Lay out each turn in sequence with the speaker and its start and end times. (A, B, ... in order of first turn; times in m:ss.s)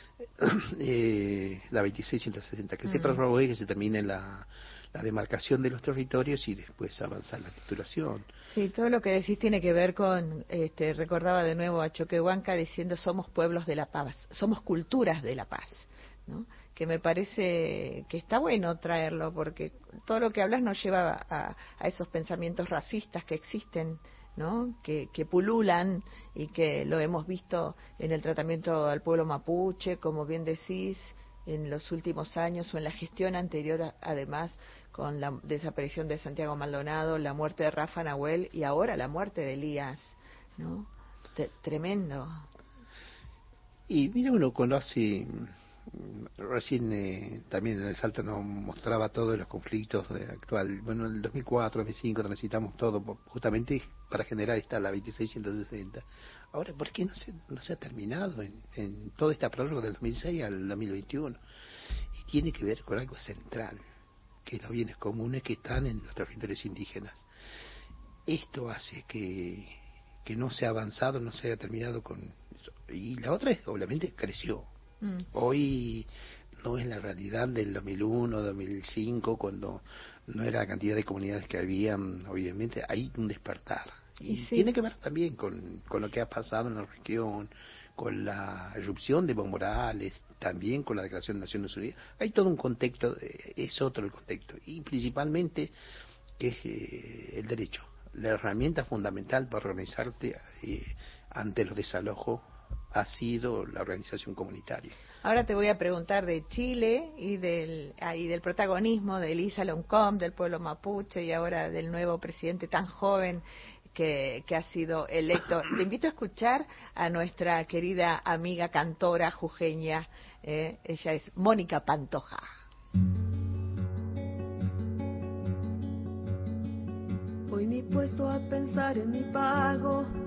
0:00.4-0:08.3 A
0:02.9-0:03.2 B
0:08.5-0:42.4 B
0:43.9-1:01.4 A
1:02.2-1:03.8 A
1:04.5-1:07.3 A
1:08.3-1:14.7 A
1:15.3-1:16.1 A
1:16.6-1:35.7 A
1:24.2-1:24.7 B
1:36.4-1:44.9 A
1:45.2-2:02.5 B
2:07.5-2:10.1 C